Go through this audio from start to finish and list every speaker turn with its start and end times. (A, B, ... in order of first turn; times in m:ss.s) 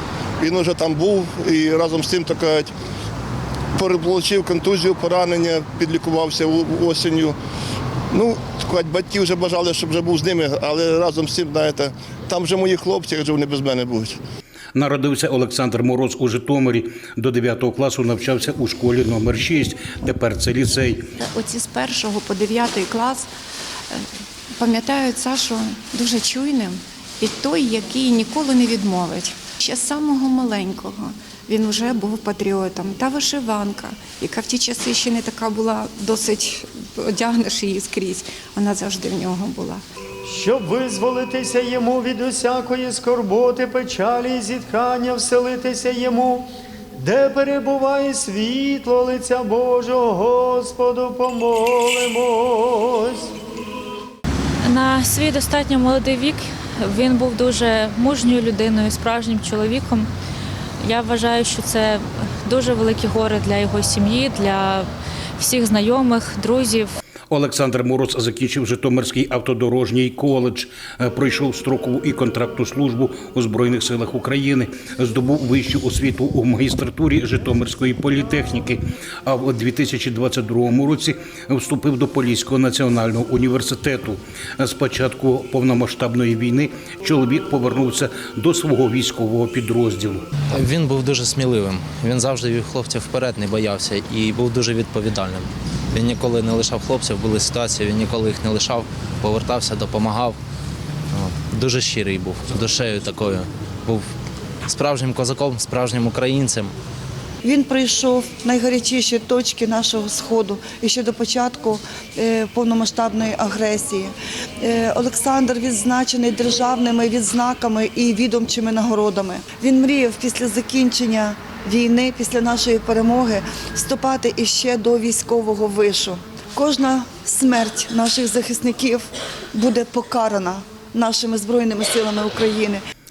0:00.4-0:02.7 A
0:03.8-0:07.3 A
0:08.1-0:14.2 A
0:14.7-0:21.0 B
0:21.2-0:23.3 C
0:24.6-0:39.8 C
0:40.3-0:53.2 D
0:54.6-1:00.1 E
1:00.8-1:04.9 E
1:05.4-1:06.9 E
1:07.3-1:30.2 B
1:30.5-1:40.4 F
1:41.1-1:44.0 F
1:44.7-1:46.7 F
1:47.4-2:12.8 G